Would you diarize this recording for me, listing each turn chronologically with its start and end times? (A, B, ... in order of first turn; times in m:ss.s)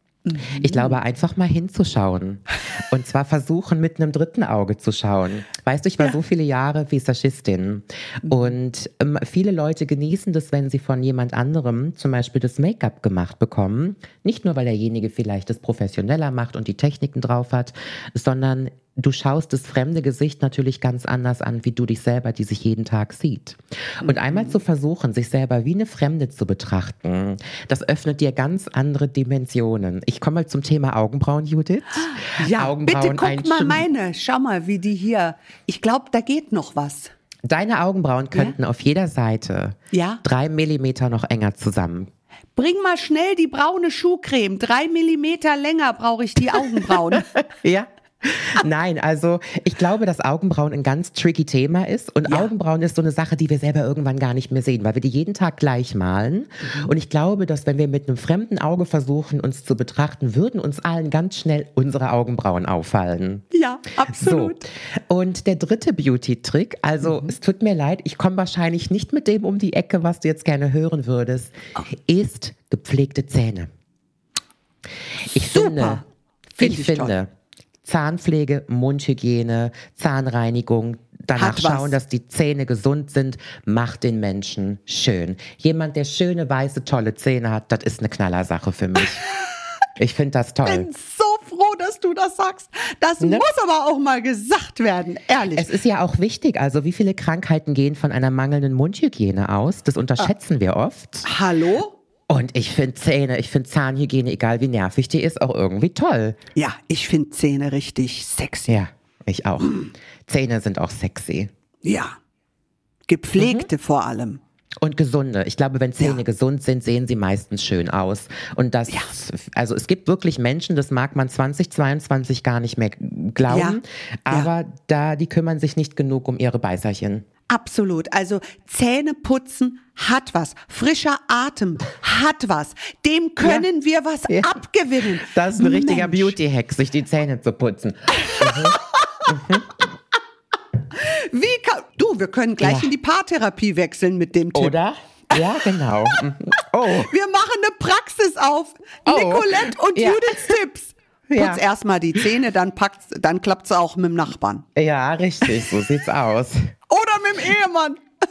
0:00.3-0:01.0 A
0:00.6-0:33.9 B
0:08.2-0:08.6 A
0:24.0-0:24.6 A
0:32.2-0:37.1 A
0:37.5-0:42.1 B
0:39.9-0:40.2 A
0:42.6-0:47.3 A
0:47.6-1:03.4 B
1:03.5-1:04.6 A
1:04.1-1:11.6 B
1:07.0-1:07.4 A
1:12.1-1:13.7 B
1:15.4-1:16.0 B
1:15.5-1:16.0 A
1:16.6-1:17.2 A
1:16.6-1:17.3 B
1:17.8-1:29.2 B
1:21.4-1:22.0 A
1:30.0-1:30.9 B
1:30.6-1:35.7 A
1:33.2-1:33.5 B
1:35.5-1:41.3 B
1:41.2-1:41.9 A
1:42.3-1:46.4 B
1:46.6-1:48.8 A
1:48.7-1:51.5 B
1:51.8-1:52.2 A
1:53.1-1:54.4 A
1:53.4-1:53.7 B
1:54.8-2:07.3 B
2:03.5-2:03.8 A
2:07.5-2:16.4 A
2:13.4-2:13.7 B
2:14.3-2:19.7 B
2:21.0-2:24.8 A
2:22.6-2:22.9 B
2:24.5-2:27.1 B
2:27.0-2:34.7 A
2:29.1-2:30.4 B
2:31.3-2:31.6 B
2:34.8-2:36.6 B
2:36.9-2:38.0 A